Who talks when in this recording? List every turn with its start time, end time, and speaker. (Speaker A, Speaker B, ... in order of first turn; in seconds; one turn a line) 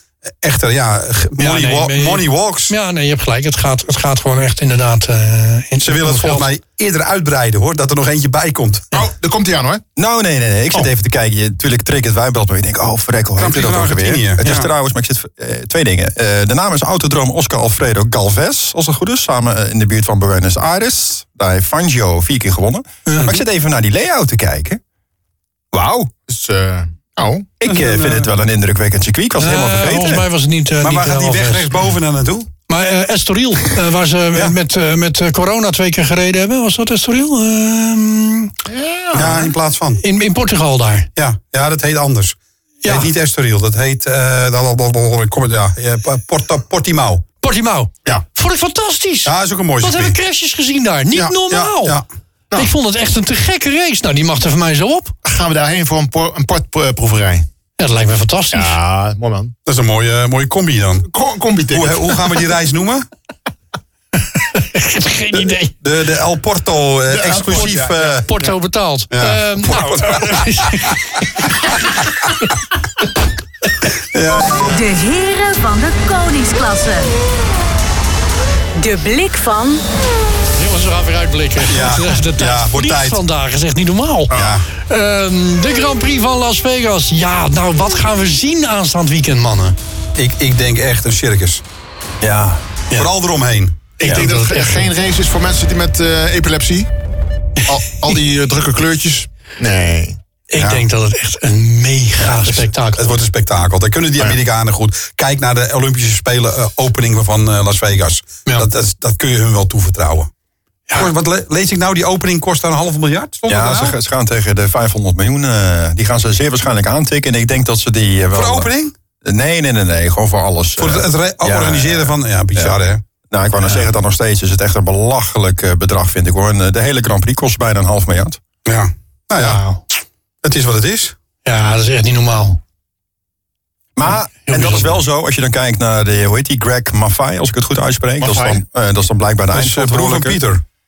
Speaker A: 0.4-2.7
Speaker B: 1.4-6.5
Speaker A: 5.8-8.9
Speaker C: 8.9-9.8
Speaker D: 9.9-24.8
Speaker A: 13.4-14.7
Speaker B: 23.1-23.3
Speaker D: 25.7-26.1
Speaker C: 26.3-27.5
Speaker D: 27.6-30.2
Speaker A: 27.6-28.3
Speaker B: 29.4-31.7
Speaker A: 30.8-32.5
Speaker B: 32.7-38.5
Speaker C: 38.7-39.5
Speaker A: 39.1-40.0
Speaker B: 40.0-41.1
Speaker A: 41.1-47.2
Speaker B: 42.8-43.1
Speaker B: 47.4-52.0
Speaker A: 49.2-50.2
Speaker A: 51.1-52.0
Speaker B: 52.5-55.1
Speaker C: 55.2-57.5
Speaker B: 57.8-58.8
Speaker C: 58.5-59.5
Speaker A: 59.6-61.1
Speaker C: 61.1-62.2
Speaker A: 61.7-63.0
Speaker B: 64.3-65.7
Speaker A: 65.8-68.3
Speaker C: 67.1-68.5
Speaker B: 68.2-71.5
Speaker A: 69.1-70.9
Speaker A: 74.1-74.7
Speaker E: 74.6-77.1
Speaker E: 78.8-79.8
Speaker B: 80.6-84.3
Speaker A: 81.7-83.2
Speaker C: 84.3-84.6
Speaker A: 84.3-84.7
Speaker B: 84.9-89.8
Speaker A: 90.2-91.6
Speaker D: 92.2-92.6
Speaker A: 92.9-93.8
Speaker C: 94.0-96.9
Speaker B: 94.0-94.9
Speaker C: 97.7-100.2
Speaker B: 100.5-103.2
Speaker A: 100.6-100.8
Speaker A: 102.2-110.3
Speaker A: 110.9-113.9
Speaker D: 113.5-118.7
Speaker A: 118.3-118.9
Speaker D: 119.2-122.8
Speaker A: 120.8-123.0
Speaker D: 123.3-128.4
Speaker A: 128.7-129.6
Speaker A: 130.4-131.1
Speaker B: 131.4-132.6
Speaker D: 133.9-140.4
Speaker B: 134.4-135.0
Speaker C: 138.2-138.6
Speaker A: 139.5-140.6